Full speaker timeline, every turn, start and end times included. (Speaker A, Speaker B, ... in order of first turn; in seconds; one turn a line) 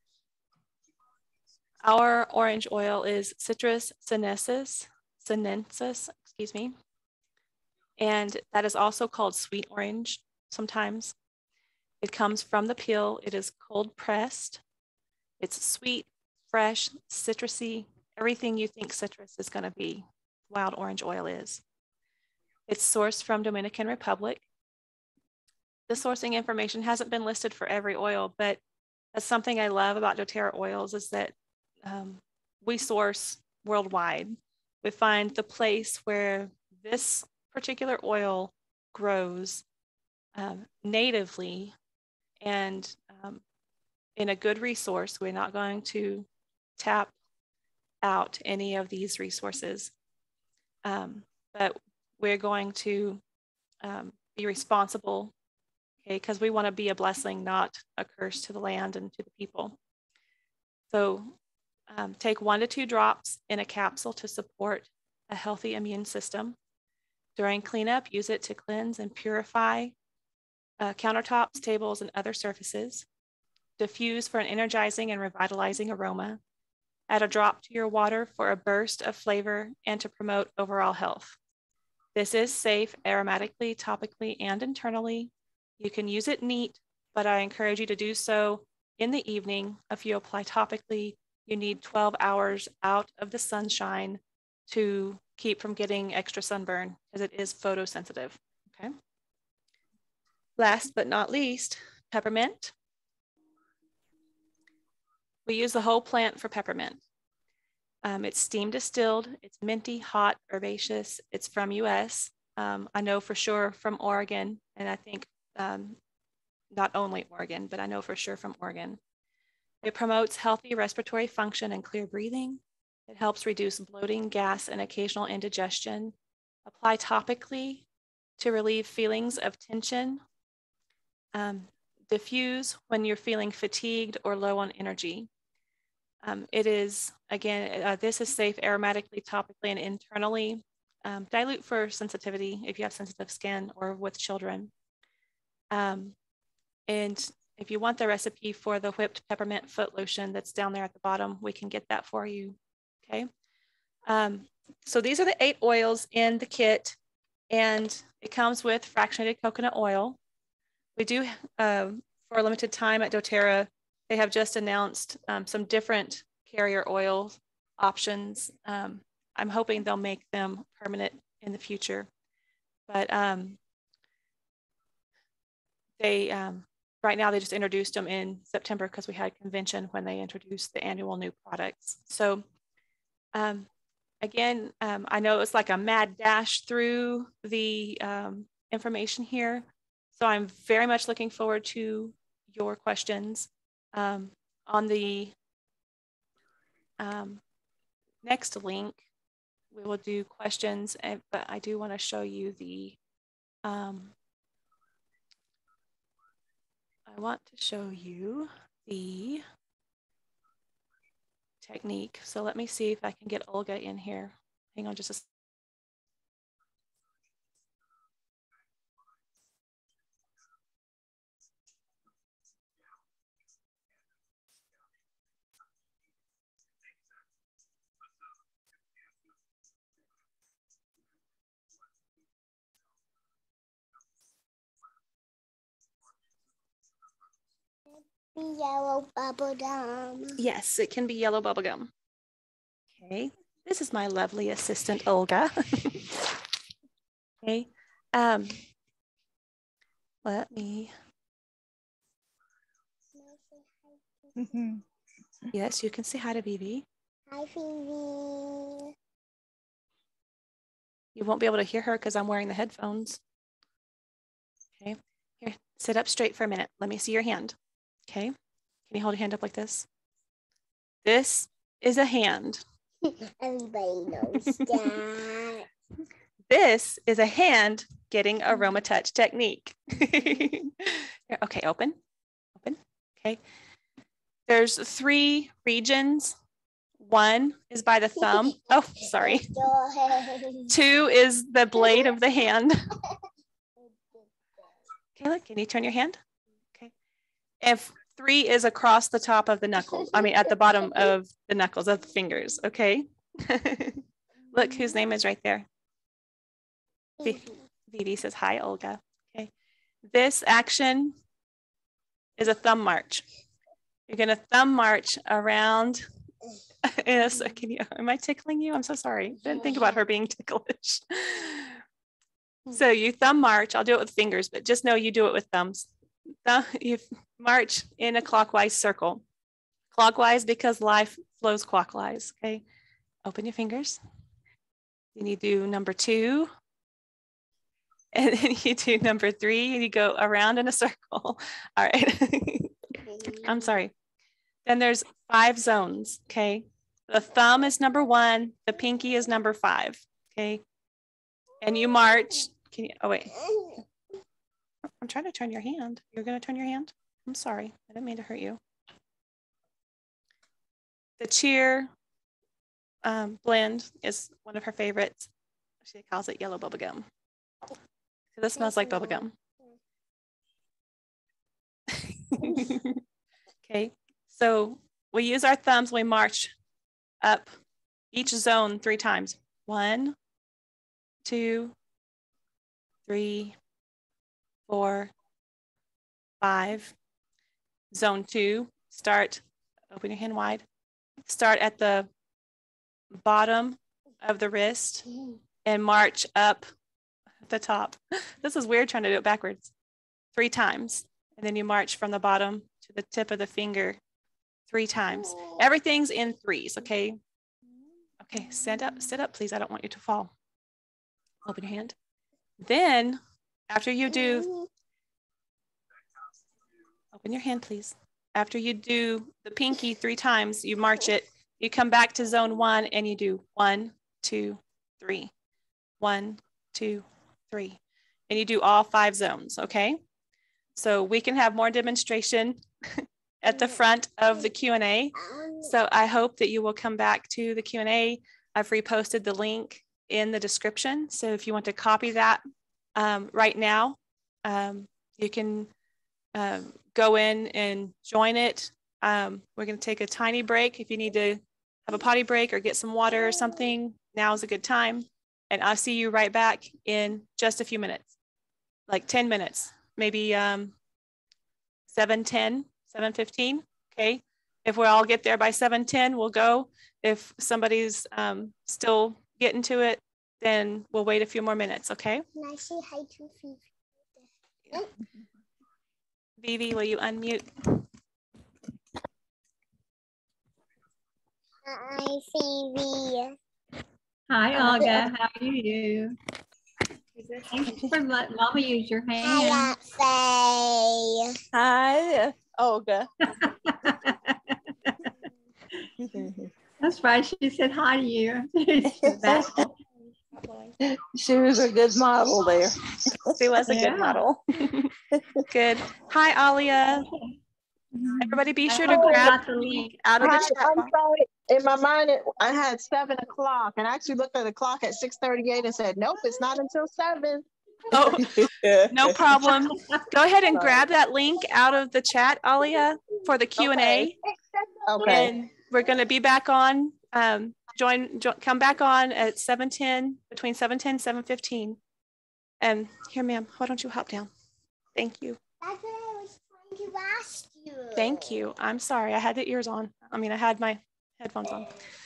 Speaker A: 1.8-6.7
Speaker A: 8.0-11.1
Speaker A: 12.0-14.6
Speaker A: 15.4-21.6
Speaker A: 22.7-24.4
Speaker A: 25.9-28.6
Speaker A: 29.1-39.6
Speaker A: 40.4-41.8
Speaker A: 42.4-43.4
Speaker A: 44.2-47.1
Speaker A: 48.0-49.9
Speaker A: 50.9-53.2
Speaker A: 53.8-55.3
Speaker A: 56.0-59.8
Speaker A: 60.9-61.4
Speaker A: 61.9-66.6
Speaker A: 67.4-70.0
Speaker A: 70.8-73.1
Speaker A: 73.8-76.4
Speaker A: 77.1-81.4
Speaker A: 82.2-98.9
Speaker A: 100.6-102.7
Speaker A: 105.5-107.0
Speaker A: 108.0-116.0
Speaker A: 116.7-119.0
Speaker A: 119.8-126.1
Speaker A: 126.7-127.9
Speaker A: 128.4-130.2
Speaker A: 131.3-135.3
Speaker A: 136.2-144.7
Speaker A: 145.7-146.2
Speaker A: 146.9-153.3
Speaker A: 154.1-157.0
Speaker A: 157.5-160.2
Speaker A: 161.0-172.1
Speaker A: 172.9-173.6
Speaker A: 176.0-182.4
Speaker A: 183.3-183.7
Speaker A: 184.2-195.3
Speaker A: 197.0-197.4
Speaker A: 198.2-199.0
Speaker A: 199.7-203.0
Speaker A: 203.7-204.2
Speaker A: 207.1-209.4
Speaker A: 211.6-215.2
Speaker B: 238.4-240.4
Speaker A: 240.4-241.9
Speaker A: 242.9-246.3
Speaker A: 247.4-248.6
Speaker A: 250.2-250.9
Speaker B: 253.2-254.0
Speaker C: 254.4-254.8
Speaker A: 255.5-256.9
Speaker B: 257.3-258.9
Speaker A: 261.1-263.2
Speaker A: 264.8-267.6
Speaker A: 268.1-268.3
Speaker A: 268.9-269.9
Speaker A: 271.0-272.6
Speaker B: 273.4-275.6
Speaker A: 274.3-274.9
Speaker A: 276.5-282.0
Speaker A: 282.6-283.4
Speaker A: 284.5-286.4
Speaker A: 287.0-289.7
Speaker B: 289.3-290.6
Speaker A: 290.7-292.9
Speaker A: 295.2-296.2
Speaker A: 297.6-305.7
Speaker A: 307.2-309.5
Speaker A: 310.1-311.2
Speaker A: 312.4-313.3
Speaker A: 314.1-316.0
Speaker A: 316.8-321.8
Speaker A: 322.7-325.9
Speaker A: 326.4-329.2
Speaker A: 329.9-332.6
Speaker A: 333.2-334.0
Speaker A: 335.1-336.5
Speaker A: 338.1-343.9
Speaker B: 343.1-343.5
Speaker A: 344.6-350.6
Speaker A: 351.6-353.8
Speaker A: 355.0-358.6
Speaker A: 361.2-361.9
Speaker A: 363.0-365.3
Speaker A: 365.8-367.1
Speaker A: 368.3-369.3
Speaker B: 368.6-369.2
Speaker A: 371.9-373.0
Speaker A: 373.6-376.5
Speaker A: 377.2-377.5
Speaker A: 378.1-380.2
Speaker A: 381.2-381.8
Speaker A: 383.1-383.6
Speaker A: 384.7-385.1
Speaker A: 386.4-387.0
Speaker A: 387.9-390.6
Speaker A: 391.2-392.1
Speaker A: 393.1-396.6
Speaker A: 397.4-399.7
Speaker A: 400.3-404.0
Speaker A: 404.7-407.2
Speaker A: 408.2-410.3
Speaker A: 411.4-412.0
Speaker A: 412.6-414.6
Speaker A: 417.1-425.3
Speaker A: 426.0-430.0
Speaker A: 430.8-442.4
Speaker B: 435.2-435.7
Speaker A: 443.0-445.7
Speaker A: 446.4-458.1
Speaker A: 458.9-460.8
Speaker A: 461.9-472.2
Speaker B: 472.4-473.6
Speaker A: 476.4-477.8
Speaker B: 481.7-483.3
Speaker D: 484.3-486.2
Speaker D: 487.2-489.8
Speaker B: 489.3-491.1
Speaker C: 491.5-493.1
Speaker D: 493.4-495.1
Speaker C: 496.1-496.4
Speaker D: 496.8-499.7
Speaker C: 499.0-499.6
Speaker A: 500.3-500.7
Speaker C: 500.9-503.2
Speaker A: 503.4-504.9
Speaker D: 503.7-504.2
Speaker A: 505.5-507.1
Speaker D: 508.1-510.6
Speaker A: 508.2-510.9
Speaker E: 508.9-509.3
Speaker E: 510.2-517.5
Speaker A: 517.9-518.3
Speaker E: 518.0-519.2
Speaker A: 518.9-524.2
Speaker E: 523.6-525.3
Speaker A: 525.0-531.8
Speaker A: 532.6-534.3
Speaker A: 535.0-535.4
Speaker B: 535.6-538.2
Speaker A: 537.9-541.8